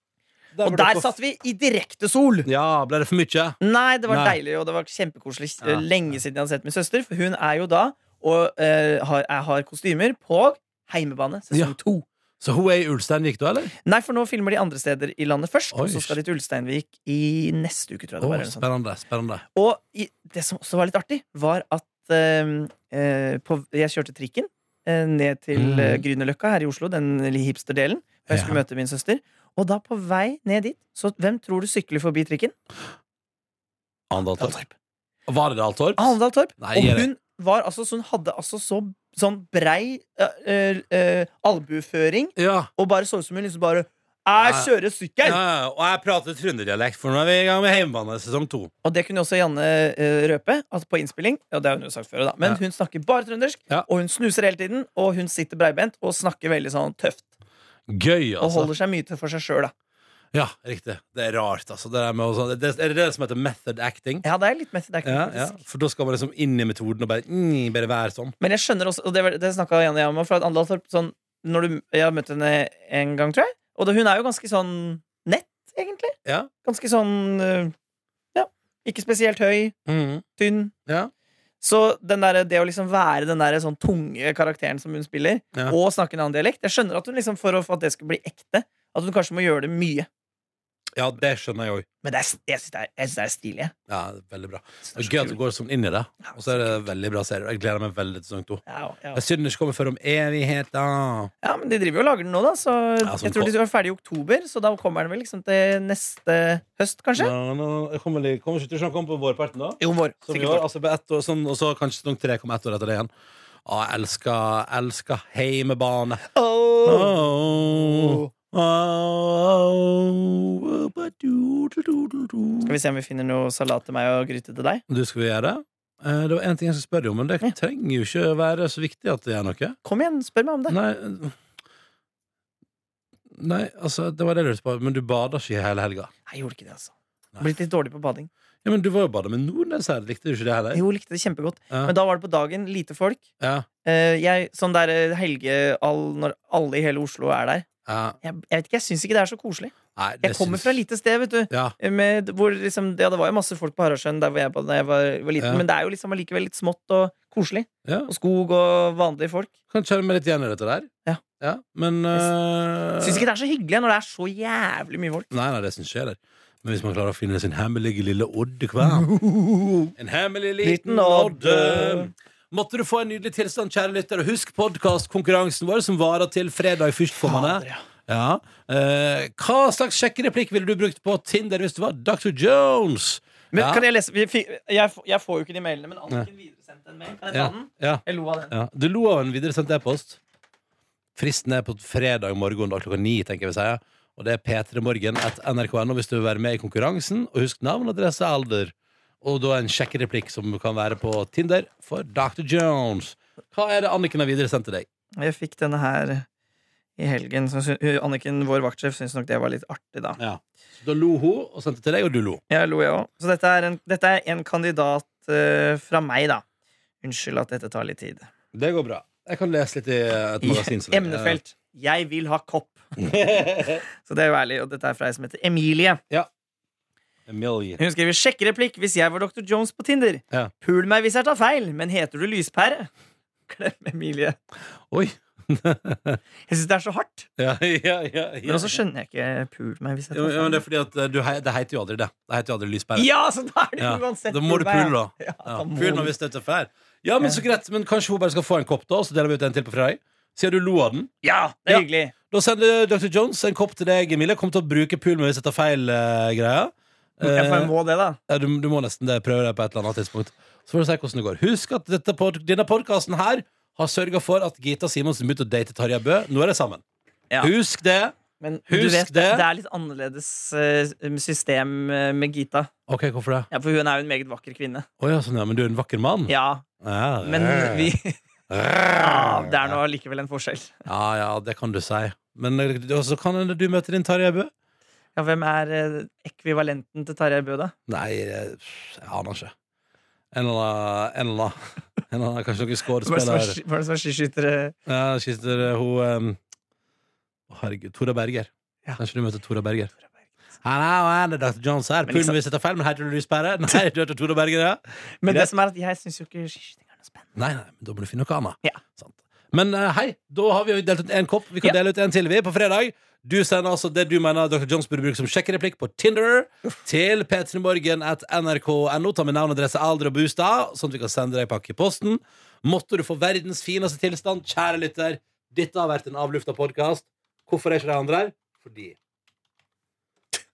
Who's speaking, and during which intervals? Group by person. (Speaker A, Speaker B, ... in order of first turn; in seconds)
Speaker A: 0.5-1.1, 2.5-4.4, 12.4-13.7, 15.7-16.2, 18.2-19.4, 25.5-26.0, 28.3-28.6, 34.1-34.5, 35.3-37.1, 42.4-42.7, 44.4-44.7, 45.2-48.7, 57.9-58.7, 60.3-64.2, 65.0-68.3, 79.8-80.2, 91.0-91.8, 93.9-101.3, 103.0-103.5, 107.2-113.1, 113.7-116.3, 116.8-122.8, 124.9-129.8, 130.7-131.3, 133.3-136.1, 138.6-140.8, 143.4-143.7, 147.8-148.2, 149.9-150.8, 151.5-151.7, 155.4-155.6, 157.8-158.1, 159.7-160.9, 161.4-163.2, 165.3-169.1, 170.0-183.8, 187.3-190.2, 191.2-204.9, 210.2-212.4, 218.5-221.4, 223.0-223.8, 227.3-227.8, 234.9-236.2, 237.4-238.8, 240.1-243.1, 243.8-251.1, 251.7-257.7, 258.3-266.8, 267.4-268.1, 268.7-269.5, 272.9-273.5, 275.0-277.9, 278.5-279.7, 280.9-284.5, 287.9-289.5, 290.3-293.6, 294.9-296.4, 297.5-299.9, 300.6-305.5, 307.4-328.9
Speaker B: 0.6-2.5, 3.6-12.1, 13.8-18.6, 19.5-32.5, 34.4-34.7, 36.0-45.4, 48.8-57.2, 58.4-59.7, 64.2-65.6, 68.4-77.7, 78.3-79.7, 80.4-80.7, 81.6-90.1, 92.0-93.7, 94.9-95.4, 96.2-96.8, 98.7-99.2, 101.4-107.3, 109.8-110.6, 116.3-118.3, 122.7-124.8, 129.8-130.8, 136.2-138.3, 140.7-143.2, 143.8-147.7, 148.2-159.5, 163.0-165.3, 168.8-169.9, 170.6-172.1, 177.2-177.8, 183.5-188.5, 205.2-206.2, 207.0-210.2, 212.5-216.4, 217.0-218.3, 220.4-222.8, 224.0-226.0, 227.8-232.9, 233.5-234.3, 236.5-237.3, 238.4-240.6, 242.9-246.1, 251.2-252.1, 257.2-258.2, 268.4-272.7, 273.5-274.9, 276.3-276.6, 277.2-278.2, 278.9-280.8, 285.1-287.7, 293.0-294.7, 302.1-302.4, 305.2-307.2